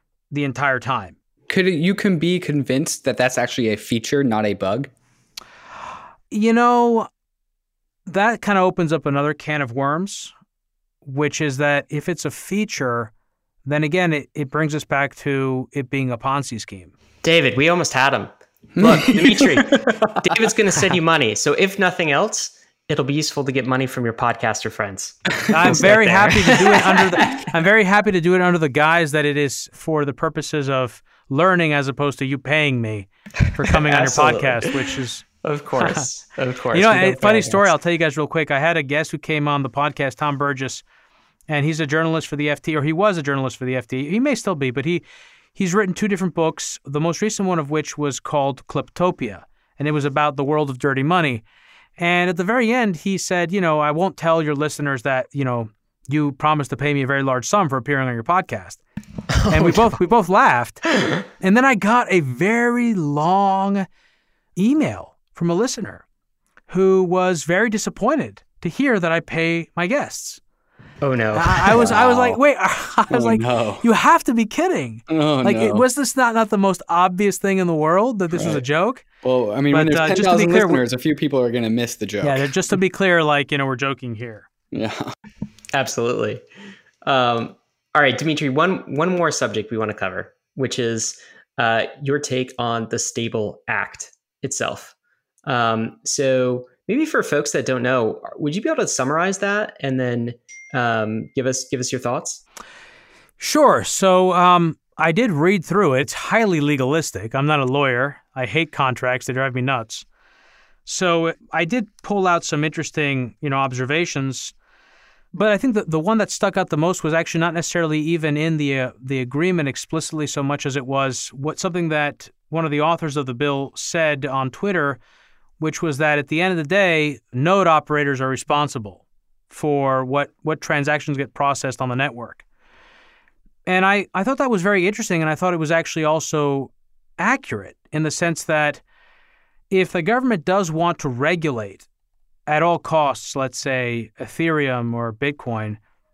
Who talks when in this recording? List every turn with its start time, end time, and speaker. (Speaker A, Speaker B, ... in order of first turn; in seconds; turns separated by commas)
Speaker A: 0.3-1.1, Speaker B: 1.5-4.9, Speaker A: 6.3-7.1, Speaker A: 8.1-10.3, Speaker A: 11.0-13.1, Speaker A: 13.7-16.9, Speaker C: 17.2-27.5, Speaker B: 18.8-20.1, Speaker A: 25.5-35.2, Speaker C: 33.7-34.9, Speaker C: 35.4-37.7, Speaker A: 35.8-36.1, Speaker A: 36.7-40.8, Speaker A: 41.5-45.0, Speaker A: 45.5-51.4, Speaker A: 52.0-58.8, Speaker C: 59.4-59.9, Speaker A: 59.5-63.9, Speaker A: 64.5-66.0, Speaker A: 66.7-70.4, Speaker C: 71.0-72.0, Speaker A: 71.3-79.0, Speaker B: 71.8-72.4, Speaker B: 73.1-73.8, Speaker B: 75.1-75.8, Speaker B: 78.3-78.6, Speaker B: 79.2-82.5, Speaker A: 79.7-80.8, Speaker A: 82.2-84.5, Speaker B: 84.7-85.1, Speaker C: 85.7-86.4, Speaker C: 87.0-94.9, Speaker C: 95.4-102.4, Speaker A: 103.4-110.0, Speaker A: 110.8-114.5, Speaker A: 115.3-125.0, Speaker A: 125.6-132.4, Speaker A: 133.7-138.8, Speaker A: 139.7-141.9, Speaker A: 142.5-145.8